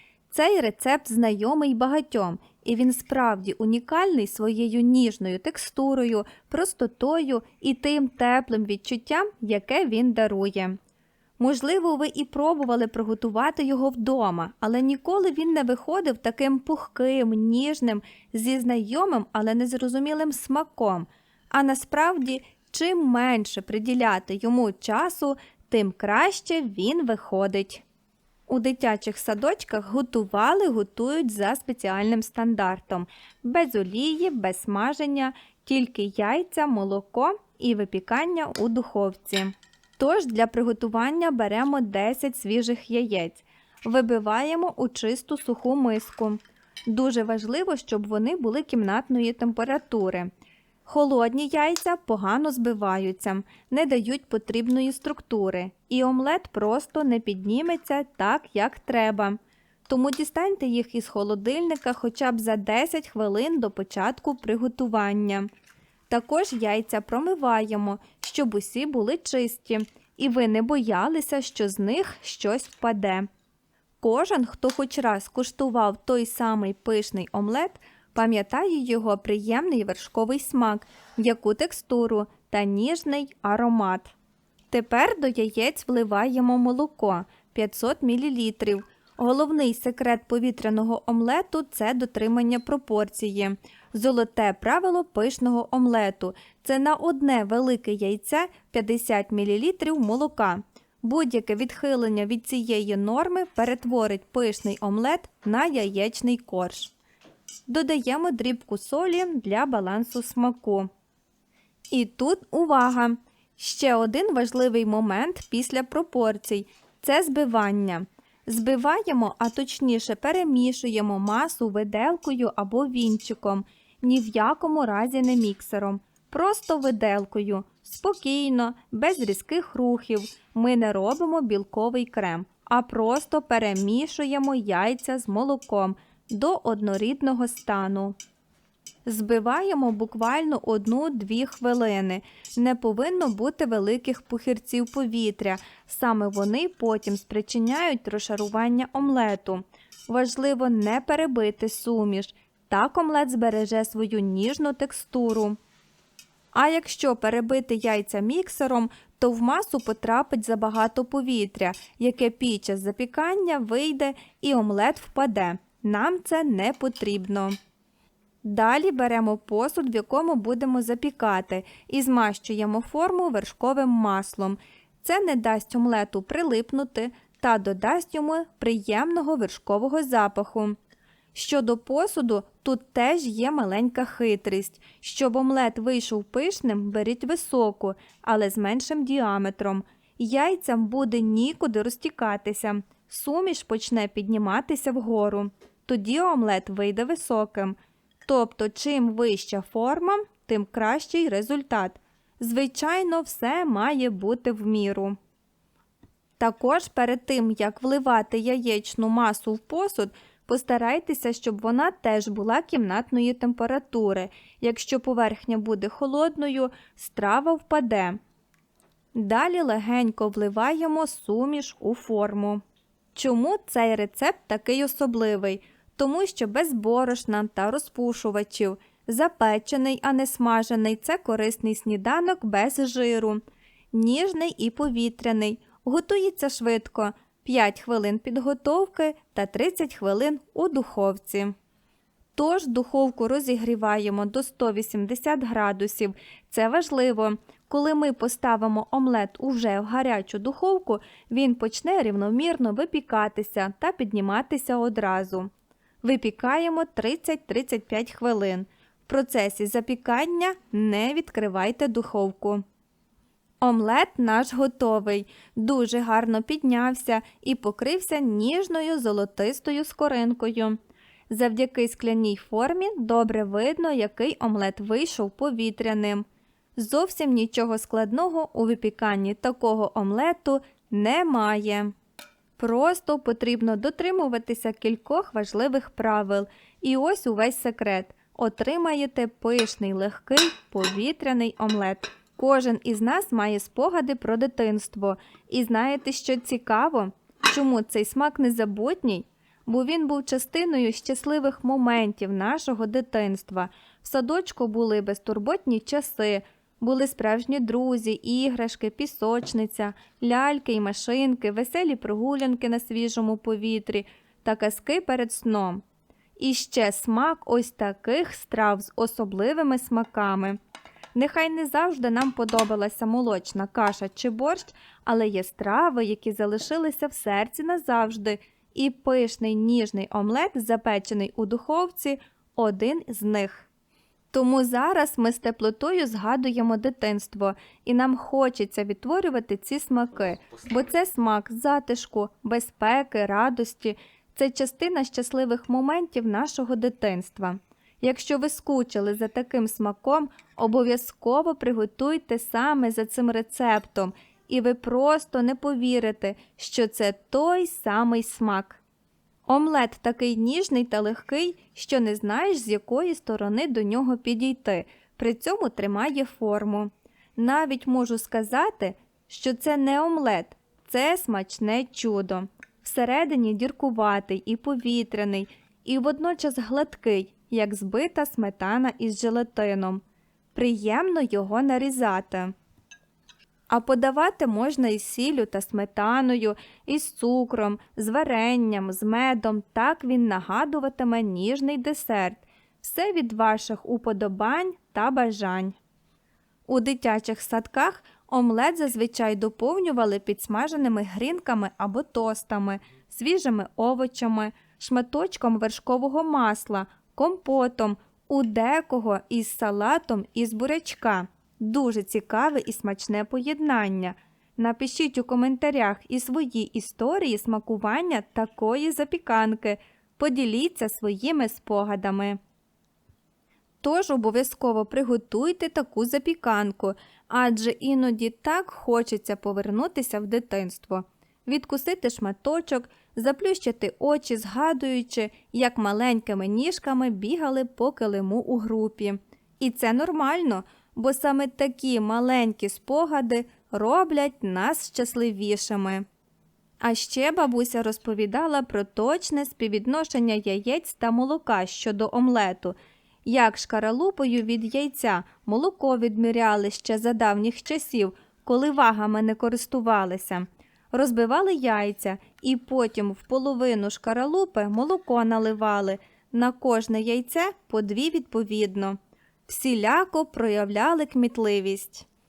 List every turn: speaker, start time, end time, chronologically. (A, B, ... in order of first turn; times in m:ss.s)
0:00.3-0:10.8 A
0:11.4-0:27.8 A
0:28.5-0:50.3 A
0:50.8-1:05.5 A
1:06.1-1:13.3 A
1:14.0-1:24.1 A
1:24.7-1:46.9 A
1:47.7-1:50.9 A
1:51.9-2:18.1 A
2:19.0-2:35.6 A
2:36.5-2:47.5 A
2:48.4-3:00.8 A
3:01.3-3:25.2 A
3:26.4-3:38.2 A
3:39.1-3:42.6 A
3:43.1-3:53.4 A
3:53.9-4:01.5 A
4:02.3-4:15.5 A
4:16.0-4:22.6 A
4:23.6-4:30.8 A
4:31.3-4:36.2 A
4:36.8-4:41.9 A
4:42.6-5:15.8 A
5:16.4-5:20.6 A
5:21.1-5:33.7 A
5:34.3-5:58.8 A
5:59.5-6:20.0 A
6:20.5-6:22.5 A
6:23.7-6:35.8 A
6:36.7-7:02.4 A
7:03.8-7:26.0 A
7:26.8-7:32.7 A
7:33.2-7:49.0 A
7:49.5-7:52.0 A